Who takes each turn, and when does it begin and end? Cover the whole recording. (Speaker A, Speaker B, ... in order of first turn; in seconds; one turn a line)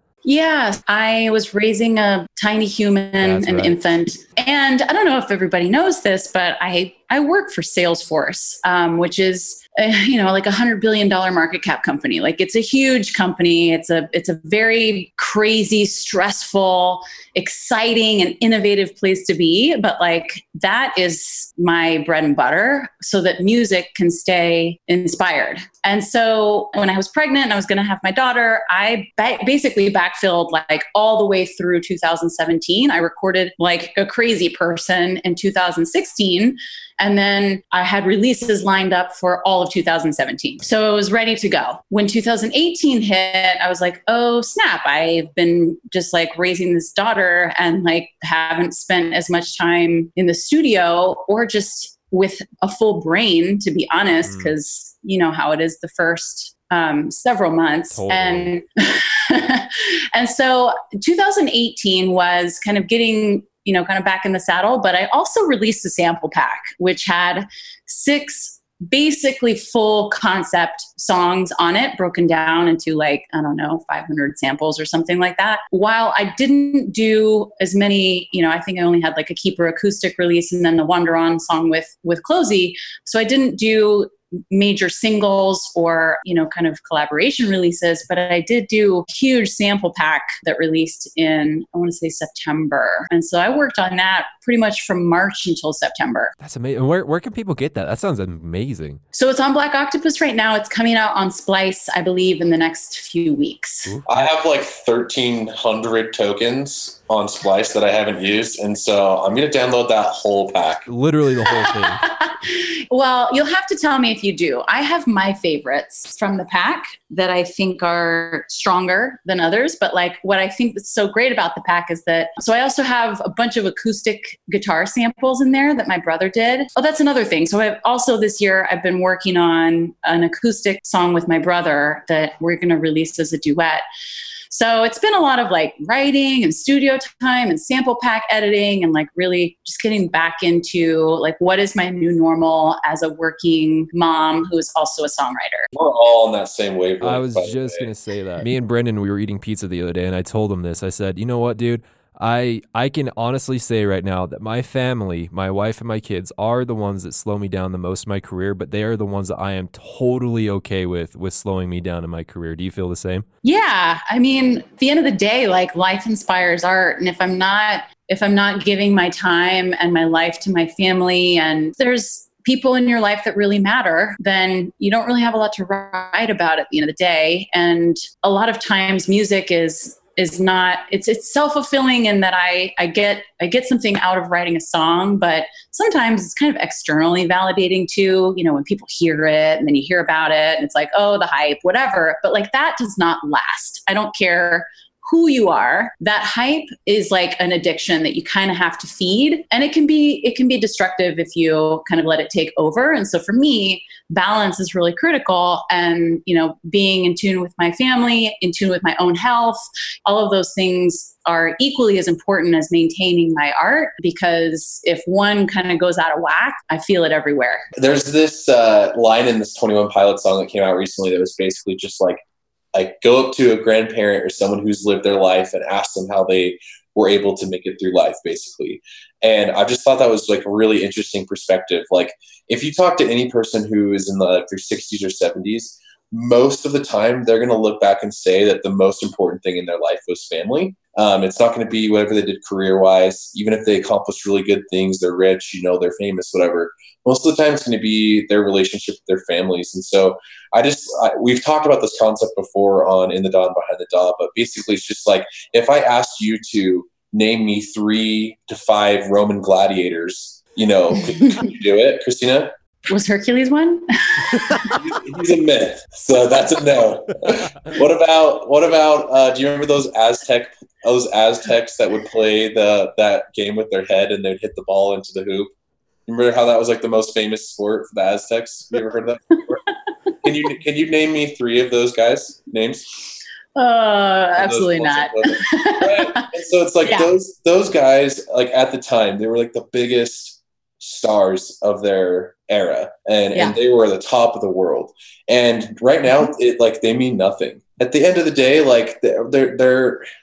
Speaker A: 0.2-96.3
Speaker B: 3.2-3.8
Speaker B: 54.2-54.5
Speaker B: 57.9-58.5
Speaker B: 96.4-99.0
Speaker A: 99.1-103.9
Speaker B: 103.9-104.3
Speaker C: 104.1-110.9
Speaker B: 110.9-112.0
Speaker A: 111.5-133.8
Speaker A: 134.5-145.7
Speaker C: 145.7-147.9
Speaker B: 147.0-163.3
Speaker A: 163.4-217.7
Speaker C: 217.8-222.2
Speaker C: 222.7-262.5
Speaker A: 262.9-264.8
Speaker C: 264.7-275.5
Speaker C: 276.1-279.6
Speaker C: 280.2-282.9
Speaker A: 283.6-286.3
Speaker C: 284.4-300.1
Speaker A: 286.9-287.1